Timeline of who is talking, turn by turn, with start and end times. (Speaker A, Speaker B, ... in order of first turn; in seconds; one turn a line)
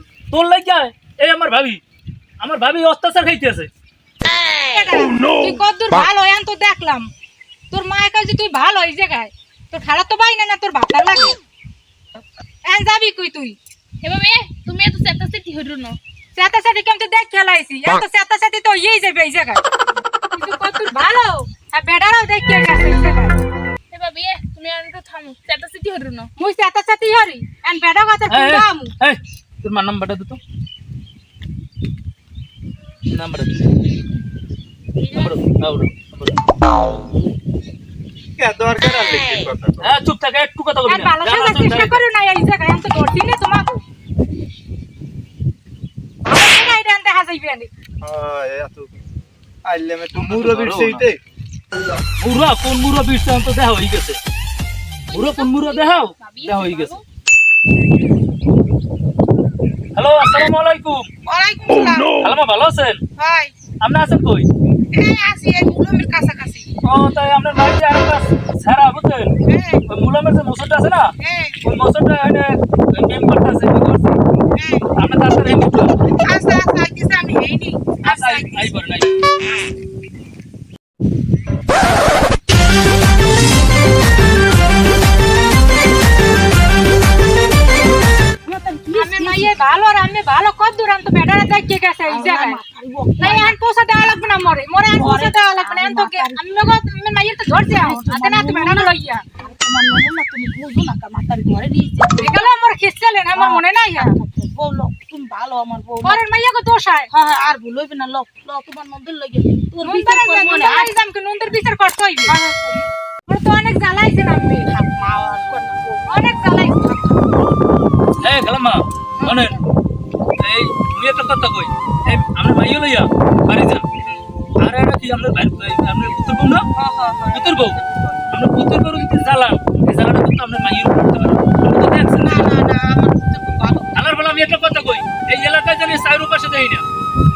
Speaker A: 0.3-1.8
Speaker A: 2.4-3.7
Speaker B: 4.7-7.1
Speaker B: 7.7-11.4
Speaker B: 12.7-13.6
Speaker C: 14.0-16.0
Speaker B: 16.4-19.6
Speaker B: 20.3-23.4
Speaker C: 23.9-26.3
Speaker B: 26.4-28.9
Speaker A: 28.3-30.4
Speaker A: 33.1-33.6
Speaker C: 35.0-35.4
Speaker A: 35.1-36.4
Speaker D: 38.4-40.0
Speaker A: 39.8-42.0
Speaker B: 40.9-43.8
Speaker B: 46.3-47.7
Speaker D: 48.0-48.9
Speaker D: 49.7-51.2
Speaker A: 50.2-51.0
Speaker A: 52.2-54.2
Speaker C: 55.1-57.0
Speaker A: 55.1-57.0
Speaker A: 60.0-61.1
Speaker E: 61.3-62.1
Speaker A: 62.2-63.0
Speaker E: 63.2-63.5
Speaker A: 63.8-64.5
Speaker E: 64.9-66.7
Speaker A: 66.8-69.3
Speaker E: 69.5-69.8
Speaker A: 69.9-71.1
Speaker E: 71.2-71.6
Speaker A: 71.6-74.2
Speaker E: 74.5-74.9
Speaker A: 75.0-76.0
Speaker E: 76.1-78.7
Speaker A: 78.0-79.1
Speaker E: 88.5-89.5
Speaker B: 88.9-92.6
Speaker E: 92.1-94.2
Speaker B: 93.2-99.2
Speaker E: 94.9-96.4
Speaker E: 97.5-102.5
Speaker B: 102.2-104.2
Speaker E: 103.3-106.2
Speaker B: 106.0-107.1
Speaker E: 107.1-110.9
Speaker B: 109.8-112.4
Speaker E: 112.3-112.6
Speaker B: 113.3-114.7
Speaker E: 114.7-117.0
Speaker B: 116.1-117.1
Speaker A: 118.2-119.6
Speaker E: 119.2-119.6
Speaker A: 120.4-123.8
Speaker A: 124.6-126.7
Speaker E: 126.8-128.2
Speaker A: 127.3-127.8
Speaker A: 128.3-132.5
Speaker E: 132.2-133.9
Speaker A: 133.9-136.8